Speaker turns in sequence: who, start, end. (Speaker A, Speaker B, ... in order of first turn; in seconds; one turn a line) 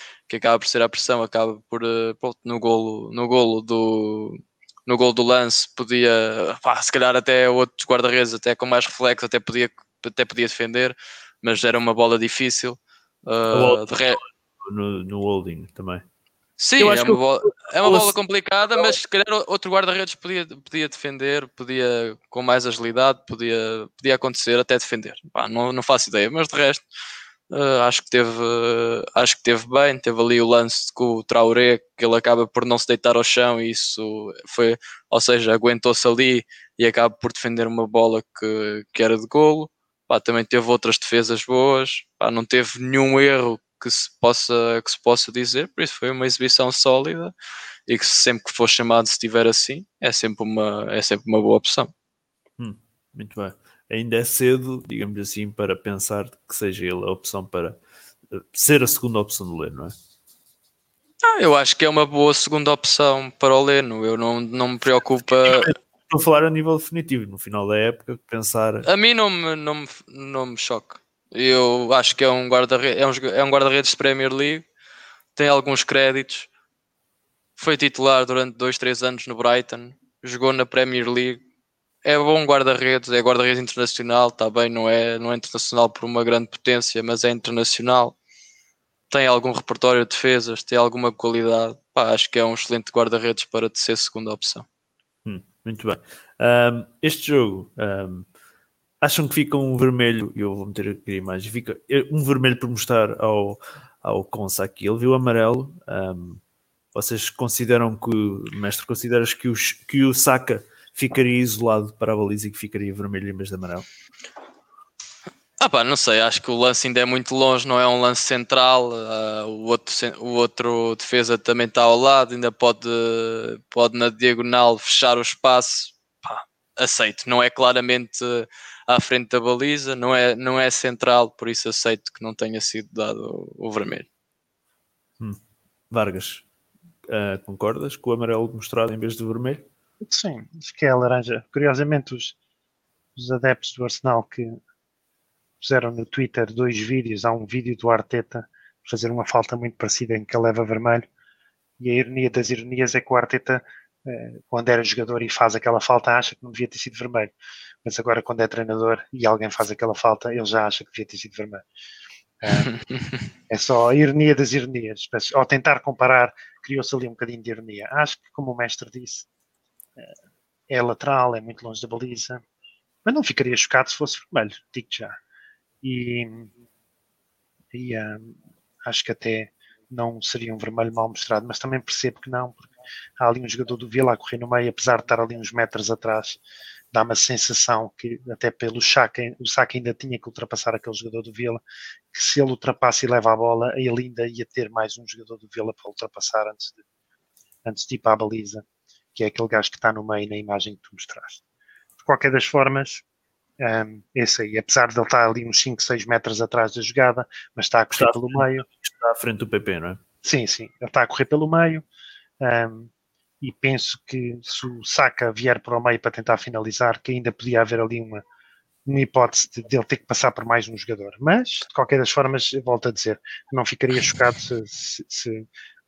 Speaker A: 0.3-14.2
Speaker B: 13.5-16.0
Speaker A: 16.6-26.8
Speaker B: 16.8-18.1
Speaker A: 27.5-47.3
Speaker A: 47.9-51.9
Speaker B: 52.6-57.8
Speaker B: 58.3-59.9
Speaker A: 61.2-65.7
Speaker B: 65.5-68.8
Speaker A: 68.8-74.6
Speaker A: 75.3-76.5
Speaker A: 77.6-81.4
Speaker A: 82.0-88.2
Speaker A: 89.1-94.7
Speaker B: 95.2-98.3
Speaker B: 99.0-106.4
Speaker B: 106.9-113.8
Speaker A: 115.6-134.1
Speaker B: 135.2-136.4
Speaker B: 137.1-139.6
Speaker C: 140.0-142.3
Speaker C: 143.2-144.6
Speaker C: 145.6-151.1
Speaker C: 151.8-157.3
Speaker C: 157.8-161.6
Speaker C: 162.4-162.7
Speaker A: 162.6-163.2
Speaker C: 163.5-169.3
Speaker C: 170.7-172.4
Speaker C: 173.0-175.2
Speaker C: 175.8-176.5
Speaker C: 177.7-178.3
Speaker C: 178.8-182.7
Speaker C: 183.2-186.4
Speaker C: 186.9-191.6
Speaker C: 192.1-196.8
Speaker C: 197.6-198.6
Speaker C: 199.1-201.4
Speaker C: 202.0-203.0
Speaker C: 203.6-208.7
Speaker B: 207.9-210.0
Speaker C: 210.2-211.8
Speaker C: 212.4-212.9
Speaker C: 213.4-218.2
Speaker C: 218.8-225.4